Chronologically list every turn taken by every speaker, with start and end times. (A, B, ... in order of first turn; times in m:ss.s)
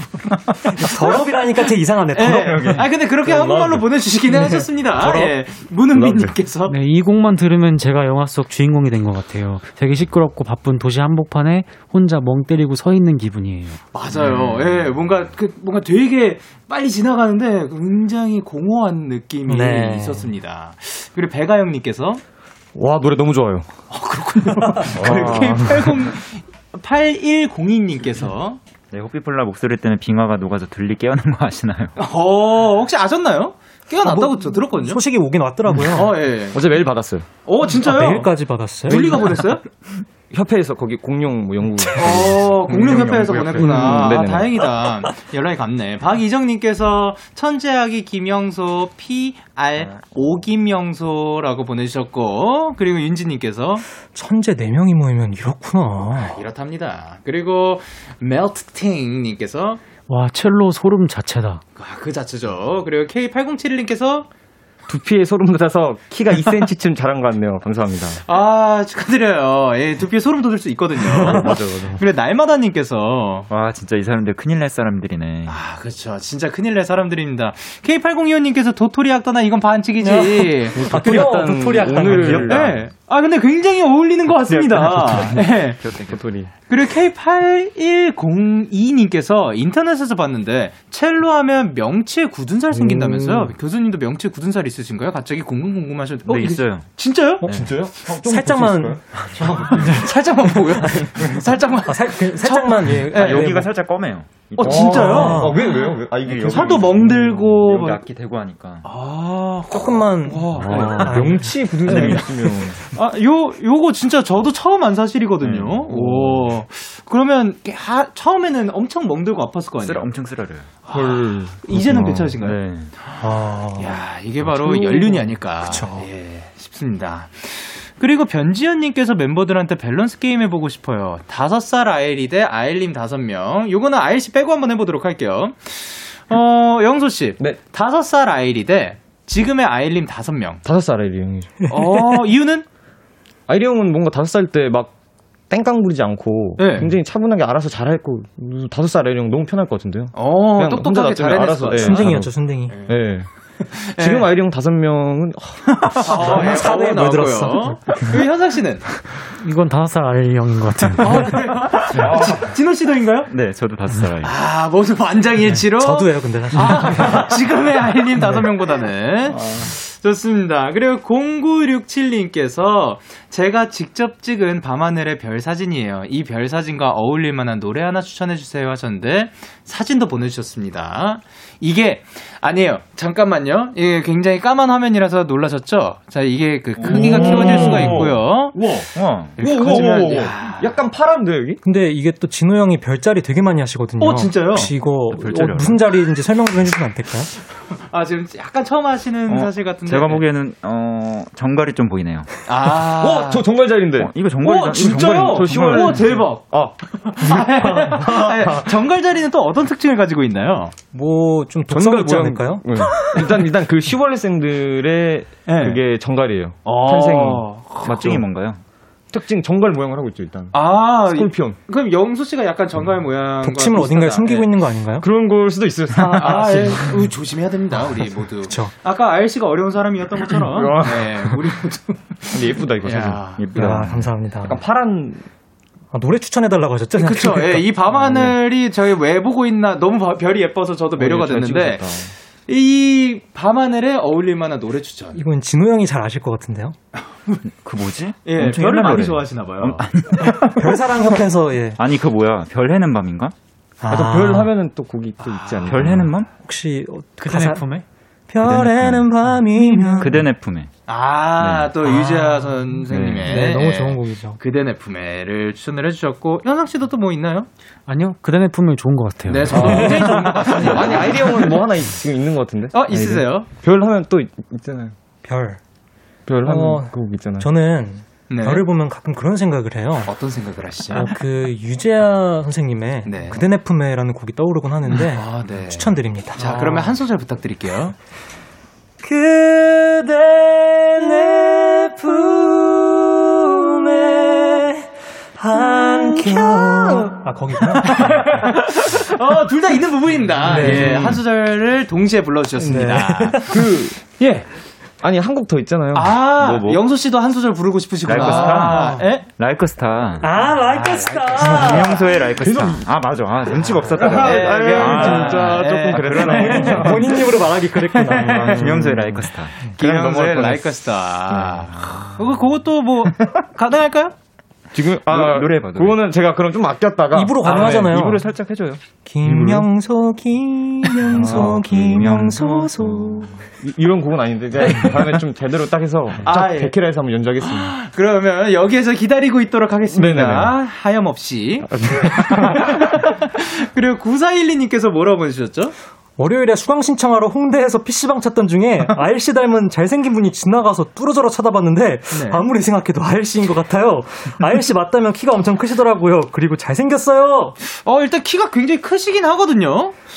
0:00.7-0:02.9 A
0:02.1-0:06.8 B
0:02.4-0:02.8 C
0:03.3-0:03.8 D
0:04.3-0:05.3 A
0:05.9-0:06.3 D
0:06.7-0:13.8 E
0:13.9-0:22.2 B
0:14.1-0:14.6 D
0:19.5-0:20.3 A
0:22.8-0:23.7 D
0:23.9-0:28.6 B
0:25.0-0:25.7 C
0:25.0-0:26.0 D
0:28.9-0:32.0 C
0:32.0-0:35.0 B
0:34.0-0:36.1 A
0:35.9-0:36.6 B
0:36.5-0:37.3 D
0:37.4-0:38.3 B
0:37.7-0:39.2 A
0:38.9-0:39.6 B
0:38.9-0:39.4 D
0:40.3-0:44.7 D
0:42.0-0:53.8 B
0:42.7-0:43.7 C
0:54.1-0:56.4 A
0:56.2-0:59.8 B
1:00.1-1:01.6 E
1:01.8-1:04.3 B
1:04.9-1:08.2 D
1:08.3-1:13.5 B
1:11.1-1:11.6 A
1:11.3-1:11.9 C
1:11.4-1:11.9 D
1:13.5-1:15.6 C
1:15.5-1:21.4 B
1:20.0-1:22.7 A
1:20.8-1:22.8 D
1:22.1-1:22.7 C
1:22.5-1:25.8 B
1:24.3-1:26.5 D
1:25.0-1:26.2 C
1:26.7-1:37.5 B
1:32.7-1:33.5 D
1:36.3-1:36.9 C
1:37.4-1:40.0 D
1:37.4-1:40.1 A
1:39.7-1:43.6 B
1:41.8-1:43.7 A
1:43.2-1:45.5 C
1:44.6-1:45.6 B
1:44.6-1:46.9 D
1:44.7-1:45.6 A
1:46.2-1:48.9 C
1:46.5-1:48.0 B
1:48.8-1:51.3 B
1:49.7-1:51.8 A
1:50.6-1:52.8 D
1:50.7-1:51.1 C
1:51.8-1:52.7 C
1:51.9-1:52.2 B
1:52.9-2:00.1 B
1:55.4-1:56.4 C
1:55.9-1:56.3 D
1:59.8-2:00.7 C
2:00.8-2:02.6 B
2:00.9-2:02.5 D
2:02.4-2:02.9 C
2:03.2-2:06.1 A
2:03.8-2:20.6 B
2:20.6-2:21.7 D
2:21.7-2:22.6 B
2:23.5-2:24.9 D
2:25.5-2:33.3 D
2:26.6-2:26.9 B
2:30.1-2:32.1 B
2:31.7-2:32.8 A
2:32.7-2:33.0 B
2:33.7-2:34.3 B
2:34.0-2:36.5 D
2:36.0-2:38.9 B
2:36.1-2:38.2 A
2:39.4-2:41.4 E
2:41.0-2:43.3 B
2:42.0-2:42.5 C
2:42.0-2:42.4 D
2:43.3-2:44.3 C
2:44.2-3:08.6 B
2:45.8-2:47.5 A
2:49.3-2:49.7 C
3:06.8-3:08.0 C
3:06.9-3:11.6 D
3:07.3-3:07.7 A
3:08.9-3:10.0 C
3:09.4-3:10.7 B
3:11.6-3:17.3 A
3:14.0-3:14.7 B
3:15.1-3:15.8 C
3:17.8-3:20.2 B
3:19.3-3:22.3 C
3:22.5-3:23.4 B
3:22.7-3:28.7 D
3:24.0-3:26.1 C
3:24.4-3:30.7 B
3:27.6-3:28.4 A
3:30.9-3:33.2 A
3:31.7-3:38.2 D
3:35.5-3:35.8 B
3:36.6-3:37.8 B
3:37.8-3:38.6 C
3:39.1-3:41.6 D
3:40.5-3:44.5 B
3:43.4-3:45.1 A
3:45.0-3:47.0 D
3:46.0-3:53.5 B
3:48.4-3:48.7 A
3:50.5-3:51.3 D
3:52.3-3:53.9 D
3:53.4-3:54.1 C
3:53.5-3:54.6 A
3:54.4-3:55.3 D
3:55.9-3:57.7 A
3:57.0-4:01.9 B
4:01.0-4:02.1 D
4:02.5-4:05.2 B
4:05.1-4:06.8 A
4:07.0-4:07.4 B
4:07.6-4:10.6 C
4:08.2-4:09.8 B
4:10.5-4:11.8 A
4:11.8-4:13.3 C
4:13.8-4:14.5 A
4:13.9-4:16.1 D
4:15.2-4:15.7 B
4:15.7-4:16.3 C
4:16.4-4:20.2 A
4:17.2-4:17.8 E
4:18.4-4:19.3 C
4:19.8-4:20.0 E
4:20.0-4:20.7 C
4:20.9-4:27.5 B
4:21.4-4:21.8 D
4:21.8-4:24.4 A
4:22.9-4:23.4 D
4:27.9-4:30.3 E
4:29.2-4:31.6 B
4:29.5-4:35.0 D
4:29.8-4:30.2 A
4:32.7-4:33.5 B
4:35.2-4:35.6 A
4:36.3-4:37.5 D
4:36.4-4:40.2 A
4:38.3-4:38.7 B
4:40.0-4:41.1 B
4:40.9-4:46.9 A
4:43.1-4:43.4 B
4:44.9-4:48.0 B
4:49.0-4:58.5 A
4:57.8-5:03.5 B
5:00.4-5:01.2 A
5:00.5-5:01.1 D
5:02.6-5:03.6 A
5:03.5-5:04.0 D
5:04.2-5:04.5 B
5:05.0-5:06.2 D
5:05.9-5:09.2 B
5:06.4-5:06.8 C
5:08.1-5:17.0 C
5:08.2-5:09.1 A
5:10.2-5:12.2 A
5:10.8-5:12.8 B
5:12.4-5:12.8 D
5:13.5-5:17.0 D
5:14.0-5:17.3 B
5:16.3-5:19.2 A
5:17.9-5:19.0 B
5:18.3-5:18.8 D
5:18.5-5:19.6 C
5:19.6-5:24.1 B
5:19.8-5:20.7 D
5:21.3-5:22.2 D
5:24.7-5:28.8 D
5:25.0-5:26.0 C
5:27.1-5:28.2 A
5:29.0-5:33.3 A
5:29.2-5:29.7 C
5:31.1-5:33.4 C
5:33.6-5:37.8 D
5:34.6-5:35.2 B
5:36.2-5:36.8 B
5:37.4-5:45.7 B
5:39.9-5:40.6 D
5:41.6-5:43.0 D
5:46.2-5:57.6 A
5:52.1-5:52.4 B
5:57.7-6:00.0 B